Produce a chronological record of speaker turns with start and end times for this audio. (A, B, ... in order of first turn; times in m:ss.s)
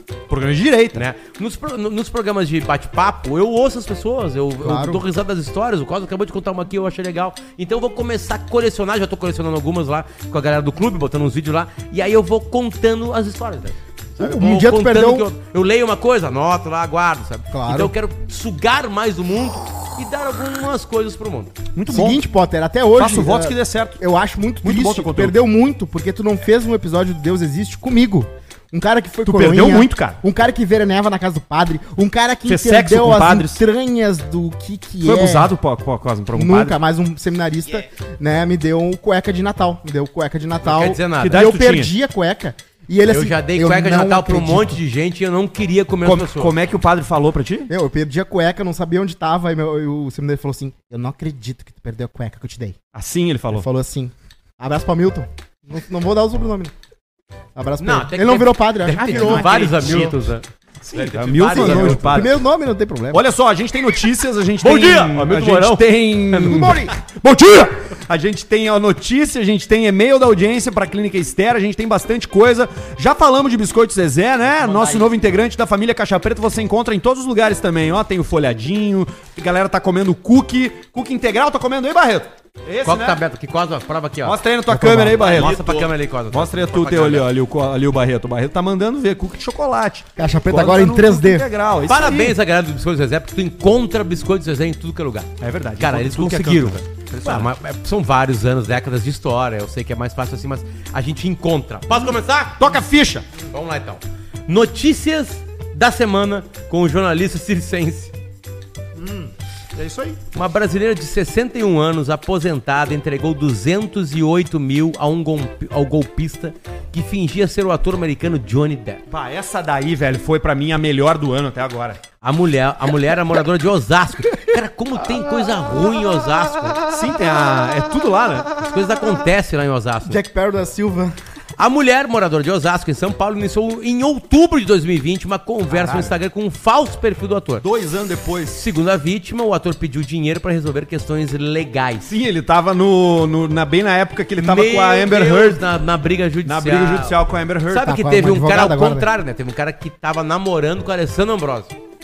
0:00.3-0:01.0 A
0:00.9-0:21.6 B
0:04.6-0:05.0 C
0:14.2-0:15.3 C
0:17.5-0:17.9 C
0:21.8-0:22.2 A
0:21.9-0:35.5 C
0:23.0-0:24.0 A
0:24.6-0:25.4 A
0:29.2-0:30.2 A
0:32.5-0:33.6 A
0:35.0-0:36.8 A
0:36.3-0:44.8 C
0:40.6-0:41.4 B
0:41.2-0:41.9 A
0:43.1-0:46.5 B
0:46.0-0:47.7 A
0:47.7-0:52.8 C
0:52.9-0:53.7 A
0:53.5-0:56.7 C
0:57.6-1:00.1 C
0:57.8-1:02.2 B
0:59.0-1:00.1 A
1:00.8-1:02.4 A
1:01.5-1:03.2 C
1:03.1-1:23.2 A
1:04.6-1:06.7 B
1:06.5-1:07.0 C
1:14.5-1:15.2 B
1:22.8-1:24.4 B
1:24.2-1:32.4 A
1:24.7-1:25.4 C
1:25.1-1:27.3 B
1:30.2-1:31.5 C
1:31.9-1:42.7 B
1:35.4-1:37.5 A
1:42.6-1:43.3 A
1:43.4-1:48.1 B
1:49.0-1:50.2 A
1:50.3-1:59.0 B
1:59.1-2:02.0 A
2:02.2-2:06.8 B
2:06.8-2:08.7 A
2:08.6-2:10.2 B
2:10.0-2:11.2 C
2:11.6-2:17.6 B
2:15.8-2:16.1 A
2:17.6-2:18.6 A
2:18.5-2:22.1 B
2:22.0-2:25.6 A
2:24.4-2:27.2 B
2:26.4-2:27.9 A
2:27.7-2:31.7 B
2:27.7-2:29.1 C